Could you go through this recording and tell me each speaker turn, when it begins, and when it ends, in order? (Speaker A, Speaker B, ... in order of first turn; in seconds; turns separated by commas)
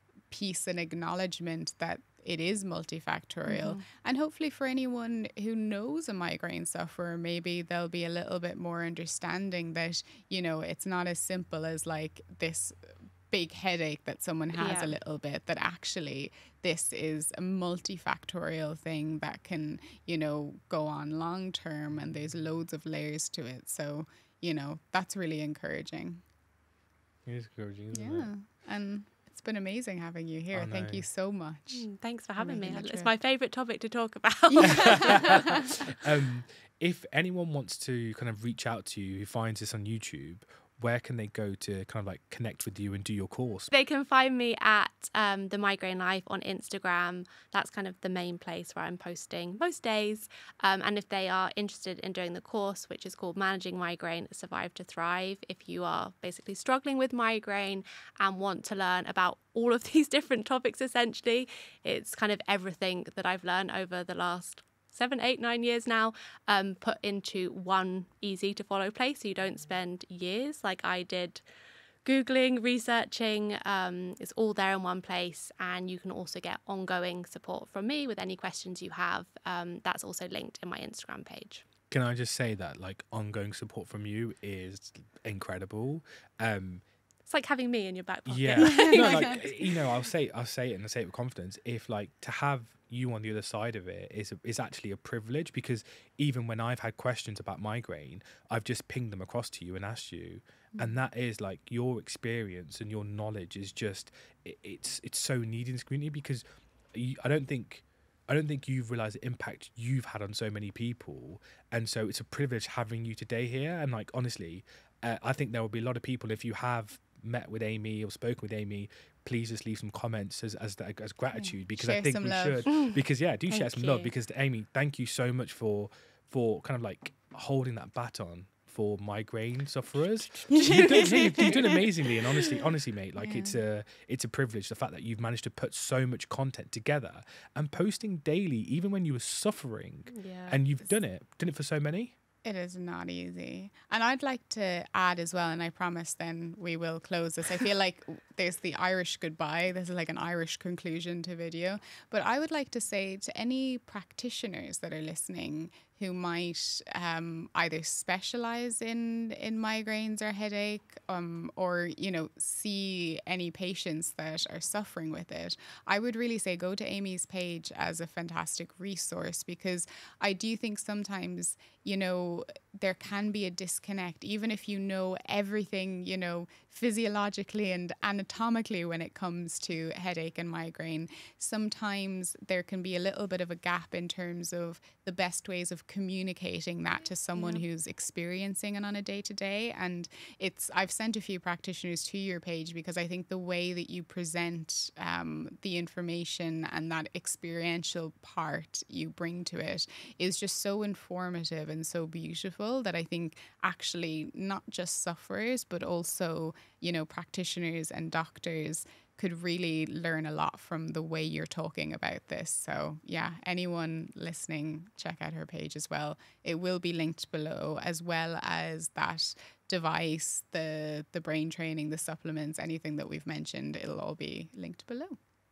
Speaker A: 0.3-26.2, Speaker B: 3.5-3.8, Speaker B: 14.6-14.9, Speaker C: 27.2-28.3, Speaker A: 27.9-31.9, Speaker C: 30.5-31.1, Speaker B: 31.7-35.9, Speaker A: 32.4-33.1, Speaker A: 34.5-35.7, Speaker C: 34.6-43.7, Speaker B: 43.7-71.4, Speaker B: 72.0-81.6, Speaker C: 81.9-86.8, Speaker B: 87.3-89.8, Speaker C: 88.2-142.1, Speaker A: 88.6-89.4, Speaker A: 121.3-122.7, Speaker B: 122.7-124.1, Speaker A: 130.5-132.5, Speaker B: 130.8-131.4, Speaker A: 133.2-133.6, Speaker B: 140.1-140.6, Speaker A: 142.4-225.2